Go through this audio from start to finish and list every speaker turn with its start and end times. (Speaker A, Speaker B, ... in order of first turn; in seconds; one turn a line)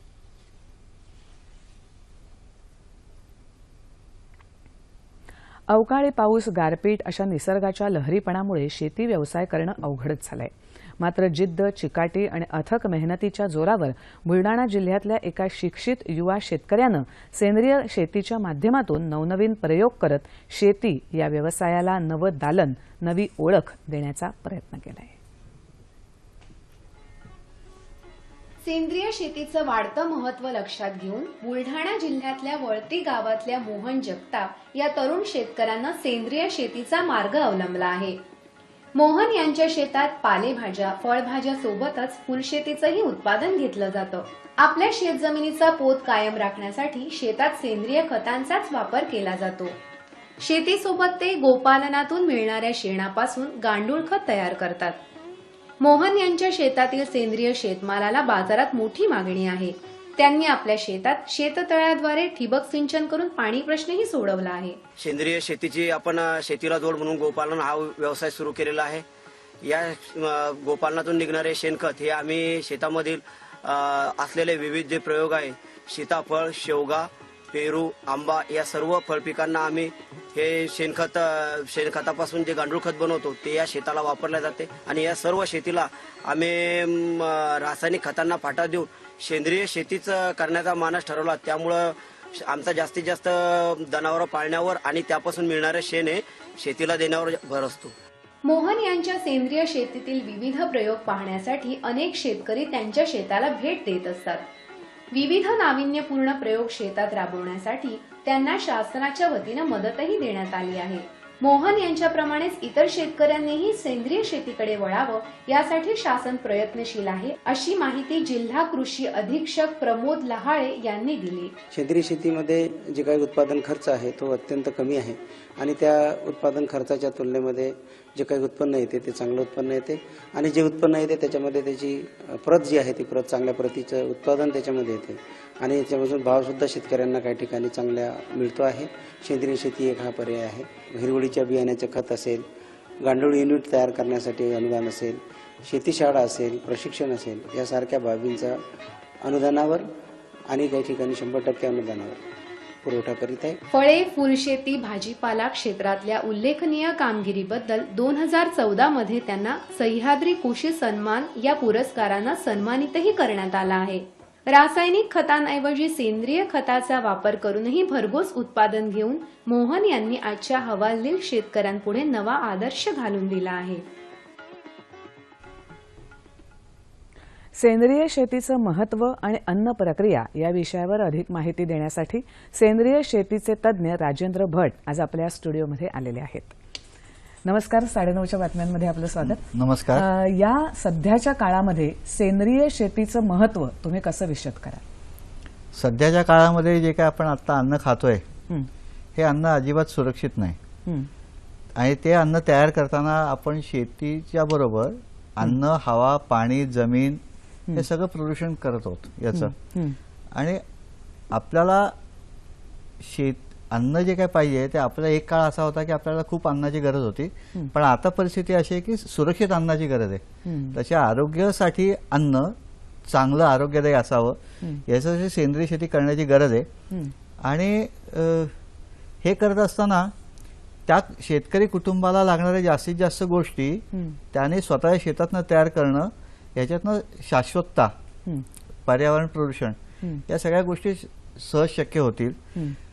Speaker A: 5.7-25.1
Speaker B: 28.6-38.2
Speaker B: 38.9-49.8
Speaker B: 50.4-55.0
Speaker B: 55.8-64.8
Speaker C: 65.0-69.0
Speaker C: 69.6-97.9
Speaker B: 98.4-104.4
Speaker B: 105.1-121.5
Speaker D: 121.7-142.4
Speaker D: 143.0-148.6
Speaker D: 149.2-149.9
Speaker D: 150.5-152.2
Speaker D: 152.8-153.6
Speaker B: 153.7-173.8
Speaker A: 177.6-186.5
Speaker A: 187.4-194.8
Speaker E: 189.2-190.0
Speaker E: 195.7-198.2
Speaker E: 199.1-200.6
Speaker E: 201.8-207.2
Speaker E: 207.7-209.5
Speaker A: 209.3-210.0
Speaker E: 210.3-210.6
Speaker E: 211.3-211.9
Speaker E: 213.0-226.7
Speaker A: 220.4-220.8
Speaker E: 227.4-228.5
Speaker E: 229.2-230.1
Speaker E: 230.8-237.9
Speaker A: 233.9-234.2
Speaker E: 238.9-242.4